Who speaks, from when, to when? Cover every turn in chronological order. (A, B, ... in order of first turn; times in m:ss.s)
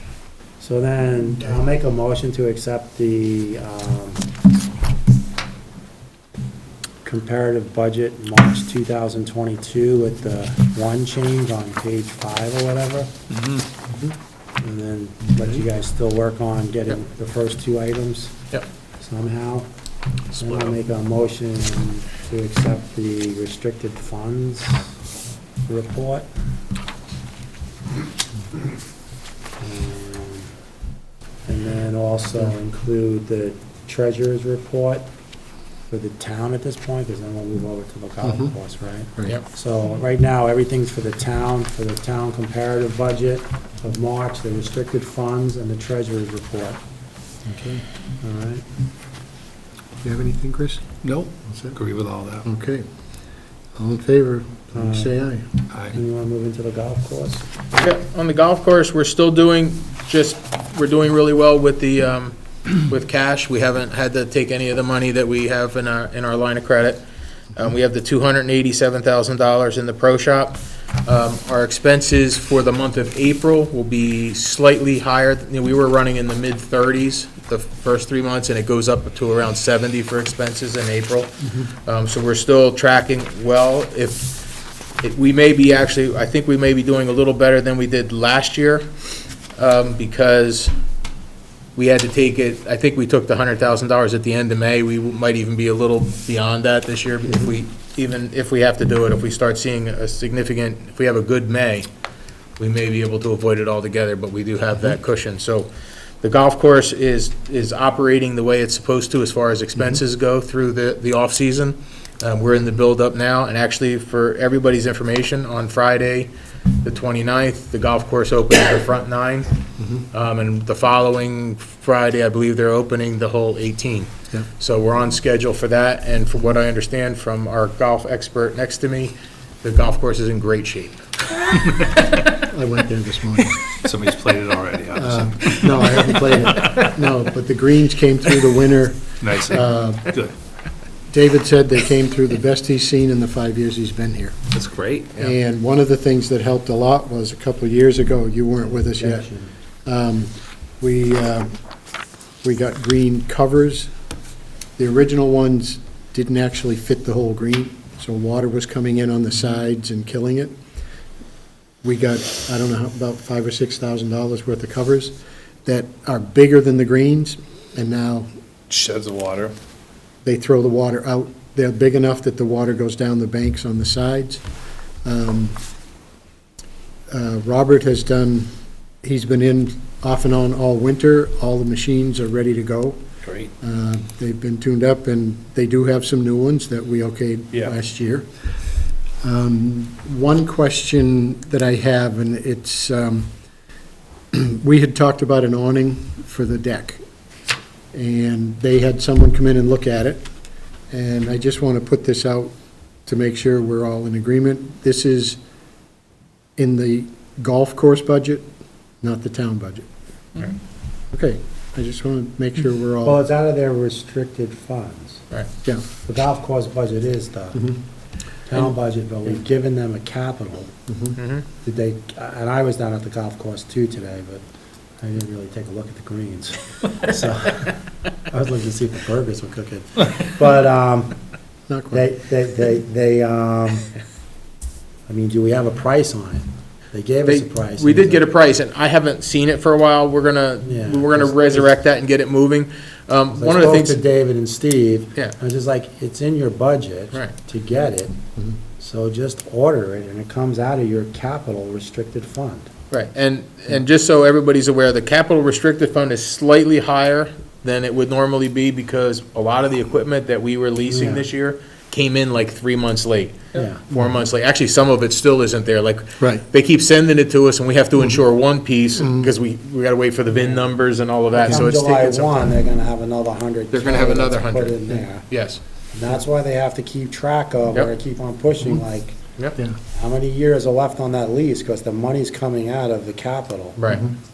0:00.6-0:04.2 A
0:07.0-0:13.1 A
0:13.3-0:13.7 B
0:14.6-0:18.3 A
0:19.0-0:19.6 A
0:20.3-0:24.8 A
0:25.6-0:26.2 A
0:29.6-0:30.5 A
0:31.4-0:35.0 A
0:35.9-0:46.8 A
0:38.2-0:38.5 C
0:47.4-0:47.8 C
0:48.2-0:48.6 A
0:50.0-0:50.8 C
0:51.0-0:52.4 B
0:51.4-0:51.7 C
0:52.4-0:52.8 C
0:53.8-0:55.5 C
0:54.7-0:55.1 A
0:55.7-0:56.0 B
0:55.9-0:57.4 A
0:57.8-1:07.0 D
1:07.6-1:24.4 D
1:25.0-1:28.9 D
1:29.6-1:30.7 D
1:31.8-1:41.9 D
1:42.6-1:45.7 D
1:46.2-1:59.5 D
1:59.8-2:00.0 C
2:00.1-2:11.0 D
2:12.3-2:13.6 C
2:13.8-2:16.9 B
2:14.9-2:20.1 C
2:19.2-2:20.3 B
2:21.1-2:24.4 C
2:24.5-2:25.3 B
2:25.2-2:29.3 C
2:28.9-2:29.5 A
2:29.8-2:31.5 C
2:32.4-2:33.9 C
2:34.8-2:40.6 C
2:41.8-2:48.3 C
2:48.7-2:49.5 B
2:50.2-2:54.4 C
2:55.0-2:55.6 C
2:57.1-2:58.5 C
2:59.0-3:03.0 C
3:03.2-3:03.5 B
3:03.6-3:08.3 C
3:09.2-3:13.3 C
3:14.3-3:17.0 C
3:17.9-3:20.2 C
3:20.9-3:22.5 C
3:23.0-3:25.4 C
3:26.6-3:28.4 C
3:29.0-3:29.8 C
3:31.1-3:33.2 C
3:33.0-3:35.3 A
3:36.0-3:37.8 A
3:38.4-3:40.7 A
3:40.9-3:41.2 C
3:41.1-3:41.4 D
3:41.5-3:44.4 A
3:45.0-3:51.2 A
3:51.7-3:52.0 C
3:51.9-3:53.9 A
3:55.1-3:58.2 A
3:57.2-4:04.0 D
4:00.6-4:01.7 A
4:03.4-4:08.1 A
4:08.8-4:12.7 A
4:12.9-4:32.5 D
4:20.9-4:21.2 A
4:23.5-4:23.8 A
4:23.9-4:24.2 C
4:29.0-4:29.3 C
4:30.3-4:30.6 A
4:31.3-4:35.3 A
4:33.7-4:35.6 D
4:35.9-4:39.2 A
4:39.9-4:43.8 A
4:43.8-4:44.1 D
4:43.9-4:44.1 C